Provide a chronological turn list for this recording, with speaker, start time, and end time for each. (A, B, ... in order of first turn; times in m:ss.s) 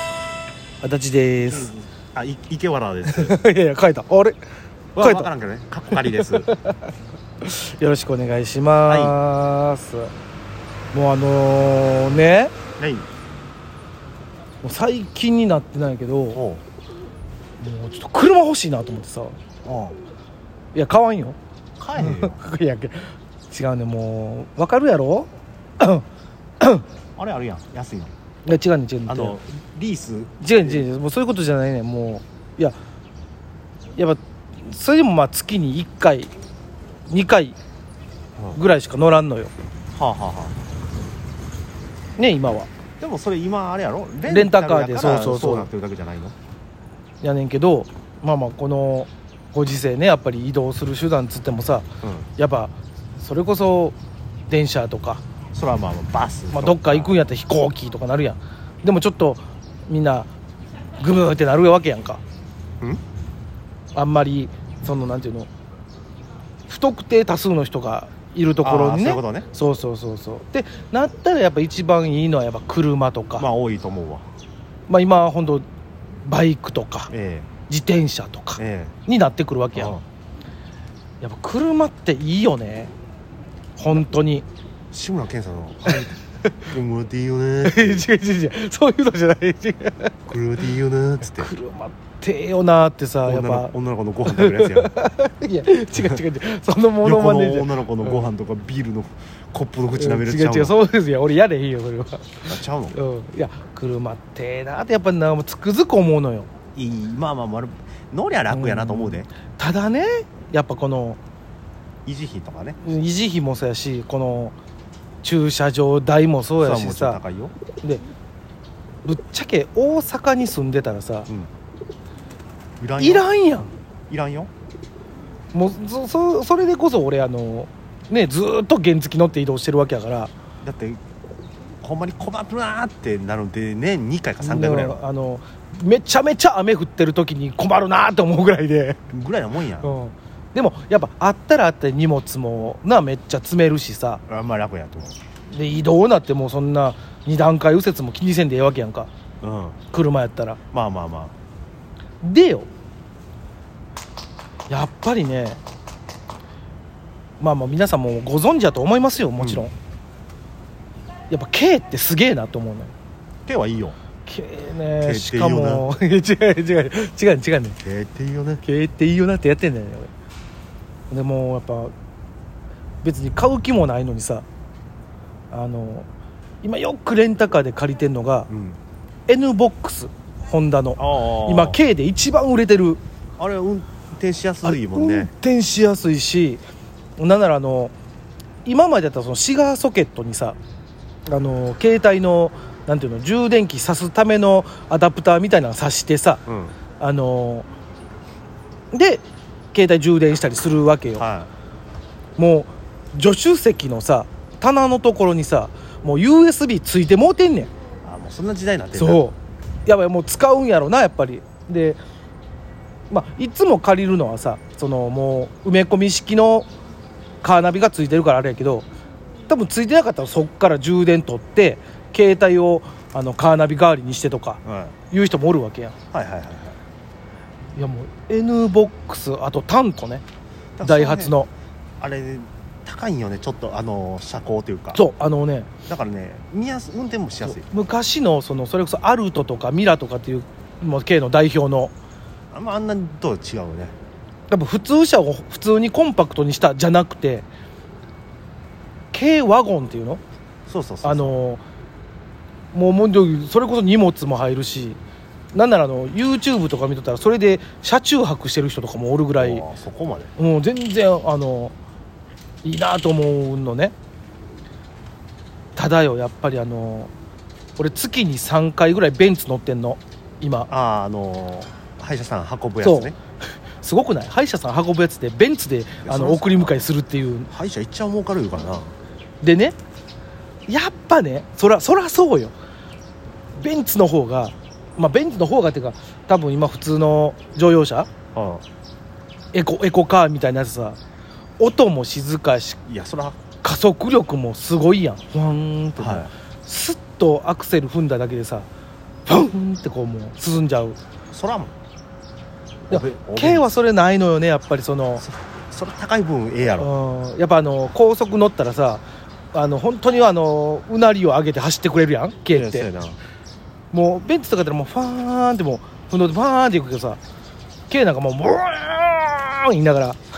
0:00.8-0:01.7 A
0:01.4-0:03.4 B
0:03.0-0:04.4 A
0:04.9-0:06.5 B
0:05.0-0:05.3 A
0:05.9-0:10.1 A
0:08.8-0:09.2 B
0:10.9-0:12.5 A
0:12.8-0:13.1 B
0:14.6-0:16.4 A
0:16.3-0:16.6 B
0:17.6-0:19.4 A
0:19.6-0:20.0 B
0:20.7-0:21.4 A
0:21.8-0:22.4 B
0:22.0-0:26.0 A
0:26.6-0:26.8 A
0:27.2-0:28.1 B
0:28.4-0:29.4 A
0:29.1-0:30.8 B
0:30.4-0:32.8 A
0:34.0-0:36.3 A
0:37.1-0:37.6 A
0:38.5-0:39.5 A
0:39.9-0:40.6 B
0:42.2-0:42.7 A
0:43.0-0:46.3 B
0:44.3-0:45.7 A
0:47.2-0:54.0 A
0:52.0-0:52.3 B
0:54.5-0:55.2 A
0:55.5-0:57.2 B
0:56.5-1:00.3 A
1:01.0-1:02.2 A
1:03.9-1:05.5 A
1:06.7-1:13.4 A
1:08.6-1:09.5 B
1:13.4-1:14.2 B
1:14.9-1:15.6 A
1:16.2-1:17.1 A
1:17.1-1:17.5 B
1:17.7-1:20.0 A
1:18.6-1:18.9 B
1:19.7-1:20.0 B
1:21.2-1:22.9 A
1:23.8-1:24.4 A
1:24.9-1:28.1 B
1:25.8-1:26.5 A
1:27.6-1:30.1 A
1:30.3-1:31.5 B
1:31.2-1:33.7 A
1:33.2-1:34.9 B
1:34.2-1:38.3 A
1:37.0-1:40.8 B
1:39.9-1:46.5 A
1:42.4-1:43.0 B
1:46.7-1:49.3 B
1:48.5-1:51.2 A
1:52.0-1:52.8 B
1:52.8-1:54.5 A
1:55.2-1:57.2 A
1:56.6-1:57.5 B
1:59.0-2:01.3 A
2:02.8-2:03.3 B
2:03.0-2:03.7 A
2:04.1-2:04.5 B
2:05.5-2:10.3 A
2:10.6-2:11.0 B
2:11.8-2:15.0 B
2:14.4-2:19.0 A
2:19.1-2:19.9 B
2:19.8-2:24.2 A
2:24.3-2:25.2 B
2:25.5-2:29.1 A
2:29.4-2:29.8 B
2:29.9-2:30.6 A
2:30.7-2:31.3 B
2:32.2-2:32.7 A
2:34.7-2:35.6 A
2:37.4-2:39.7 A
2:39.4-2:39.7 B
2:41.3-2:42.9 A
2:43.4-2:44.0 B
2:44.2-2:47.8 A
2:45.0-2:45.8 B
2:47.8-2:48.6 B
2:48.6-2:50.1 A
2:51.1-2:51.9 A
2:53.0-2:54.4 A
2:55.5-2:56.1 A
2:56.6-2:58.5 A
2:58.5-2:58.8 B
2:59.3-3:03.0 A
3:01.0-3:01.8 B
3:03.4-3:05.3 B
3:04.6-3:06.6 A
3:07.2-3:07.9 A
3:08.6-3:10.6 A
3:11.3-3:16.4 A
3:16.5-3:16.7 B
3:17.0-3:17.7 A
3:18.9-3:21.2 A
3:21.2-3:21.5 B
3:22.4-3:27.7 A
3:28.0-3:29.2 B
3:29.0-3:32.0 A
3:33.1-3:36.7 A
3:37.4-3:38.9 A
3:39.5-3:46.0 A
3:44.6-3:45.0 B
3:46.1-3:46.8 B
3:47.7-3:50.2 A
3:50.8-3:51.3 B
3:50.8-3:51.5 A
3:52.0-3:55.0 B
3:54.9-3:55.7 A
3:55.9-3:57.7 B
3:57.4-4:01.9 A
4:02.5-4:03.9 B
4:04.5-4:07.5 A
4:09.1-4:10.2 A
4:10.7-4:11.4 B
4:11.0-4:11.6 A
4:12.7-4:15.0 A
4:15.5-4:19.6 A
4:19.4-4:20.3 B
4:20.4-4:21.7 A
4:22.6-4:23.9 A
4:25.8-4:27.1 A
4:27.8-4:30.7 A
4:30.7-4:33.2 B
4:32.8-4:33.1 A
4:33.8-4:37.5 A
4:36.0-4:36.9 B
4:37.5-4:38.9 B
4:39.4-4:39.8 A
4:40.7-4:42.5 A
4:43.6-4:48.1 A
4:48.3-4:48.6 B
4:49.5-4:51.0 A
4:51.6-4:52.8 A
4:52.9-4:53.4 B
4:53.6-4:58.7 A
4:56.0-4:56.3 B
4:59.2-5:01.0 A
5:01.3-5:01.7 B
5:02.9-5:03.7 B
5:02.9-5:05.2 A
5:05.2-5:06.9 B
5:06.8-5:12.9 A
5:12.5-5:13.2 B
5:13.9-5:17.2 A
5:17.9-5:20.2 A